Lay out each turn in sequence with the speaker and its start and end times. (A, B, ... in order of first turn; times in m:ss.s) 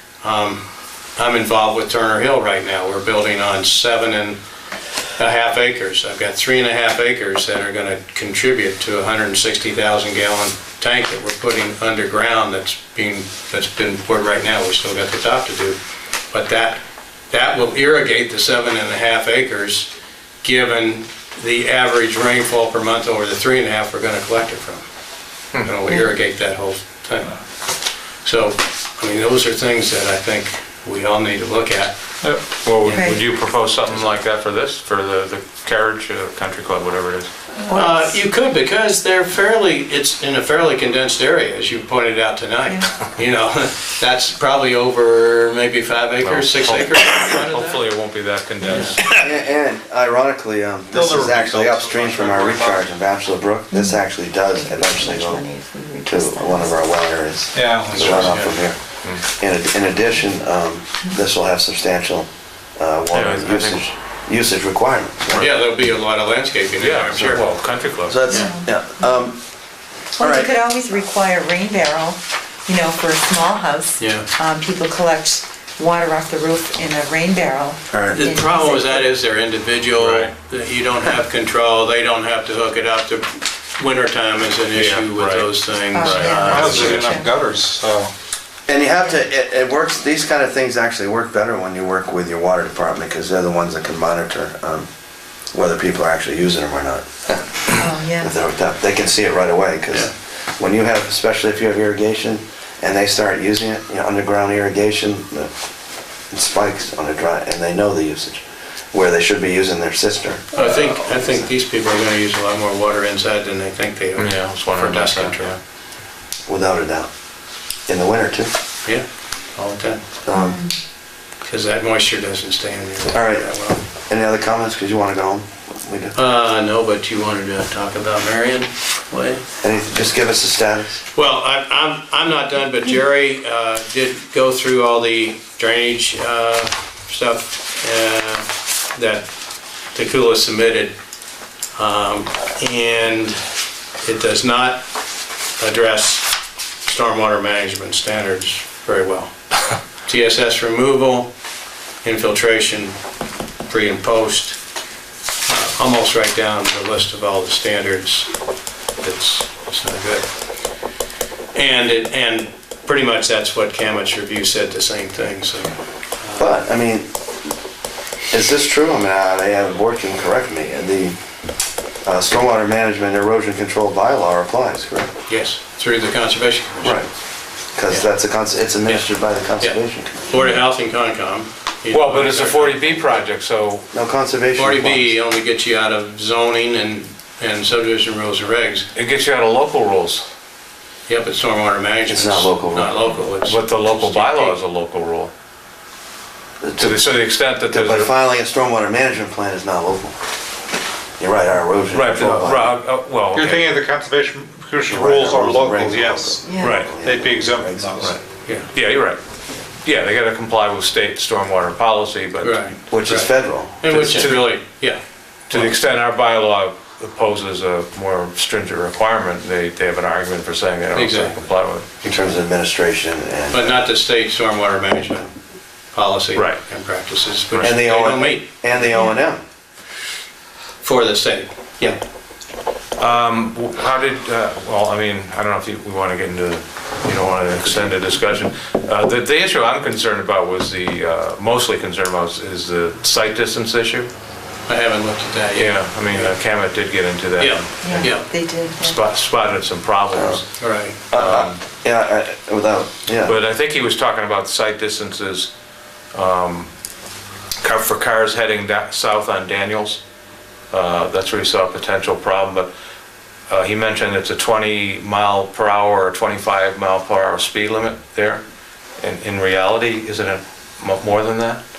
0:00.2-0:00.6 A
0:01.2-0:04.4 A
0:05.2-0:15.8 A
0:16.3-0:19.9 A
0:20.4-0:24.8 A
0:25.6-0:27.4 A
0:28.2-0:32.2 A
0:32.6-0:37.3 B
0:32.8-0:33.3 A
0:32.8-0:33.2 C
0:37.6-0:47.8 A
0:37.7-0:38.1 C
0:46.2-0:49.3 B
0:48.7-0:49.0 A
0:48.7-0:55.5 D
0:50.9-0:52.8 E
0:53.7-0:56.9 C
0:56.0-1:05.5 D
0:57.5-0:58.2 E
0:57.9-0:58.6 A
1:03.1-1:03.9 B
1:05.4-1:07.5 A
1:06.8-1:08.2 B
1:08.1-1:09.4 D
1:08.2-1:09.0 C
1:10.2-1:19.0 C
1:10.2-1:10.5 D
1:14.0-1:14.3 A
1:17.9-1:18.2 D
1:18.1-1:27.0 A
1:20.0-1:20.3 B
1:24.7-1:27.0 B
1:25.9-1:27.3 C
1:26.4-1:28.1 E
1:28.7-1:34.9 D
1:35.5-1:45.5 D
1:37.7-1:38.3 C
1:46.3-1:51.5 D
1:50.5-1:55.6 A
1:54.2-1:55.6 B
1:56.5-1:57.1 D
1:57.9-1:58.5 D
1:58.8-2:00.0 A
2:00.2-2:00.6 D
2:00.3-2:00.8 C
2:01.4-2:03.8 A
2:03.1-2:06.2 D
2:06.2-2:09.4 A
2:09.6-2:11.0 D
2:11.2-2:19.3 A
2:19.8-2:20.9 A
2:21.8-2:23.4 A
2:24.0-2:24.9 A
2:25.6-2:29.4 A
2:29.9-2:31.3 A
2:32.0-2:33.0 A
2:33.7-2:34.6 A
2:35.5-2:38.4 A
2:39.0-2:40.3 A
2:41.5-2:46.5 A
2:46.4-2:47.1 D
2:48.3-2:51.2 D
2:52.0-2:55.1 D
2:55.3-2:57.1 A
2:56.8-2:57.1 D
2:57.7-3:00.2 D
2:58.8-3:03.2 A
3:00.3-3:00.6 C
3:01.9-3:03.9 B
3:03.9-3:05.1 D
3:04.6-3:08.9 A
3:08.9-3:10.3 B
3:11.1-3:14.6 A
3:12.1-3:12.9 D
3:13.4-3:15.3 B
3:16.6-3:17.1 D
3:16.8-3:18.1 B
3:17.7-3:20.2 D
3:21.2-3:22.7 D
3:21.9-3:23.8 B
3:23.3-3:28.2 E
3:24.9-3:28.1 D
3:26.4-3:26.9 C
3:26.6-3:26.9 B
3:28.0-3:32.7 B
3:28.4-3:28.7 A
3:32.4-3:35.8 A
3:32.9-3:34.4 D
3:33.9-3:34.6 B
3:35.5-3:41.9 B
3:40.9-3:41.4 A
3:42.0-3:43.7 D
3:43.5-3:45.3 A
3:45.9-3:48.6 A
3:46.4-3:46.6 B
3:47.5-3:47.8 B
3:47.6-3:49.4 D
3:50.8-3:52.0 A
3:53.0-4:04.1 B
3:57.6-3:57.9 A
4:04.7-4:06.4 A
4:05.6-4:10.5 B
4:07.4-4:08.3 A
4:07.8-4:09.0 C
4:10.1-4:10.4 D
4:10.6-4:11.0 A
4:11.1-4:13.4 D
4:11.1-4:11.6 B
4:13.2-4:15.5 B
4:16.1-4:16.7 B
4:17.6-4:20.0 B
4:20.7-4:22.7 B
4:23.5-4:28.4 B
4:29.0-4:31.6 B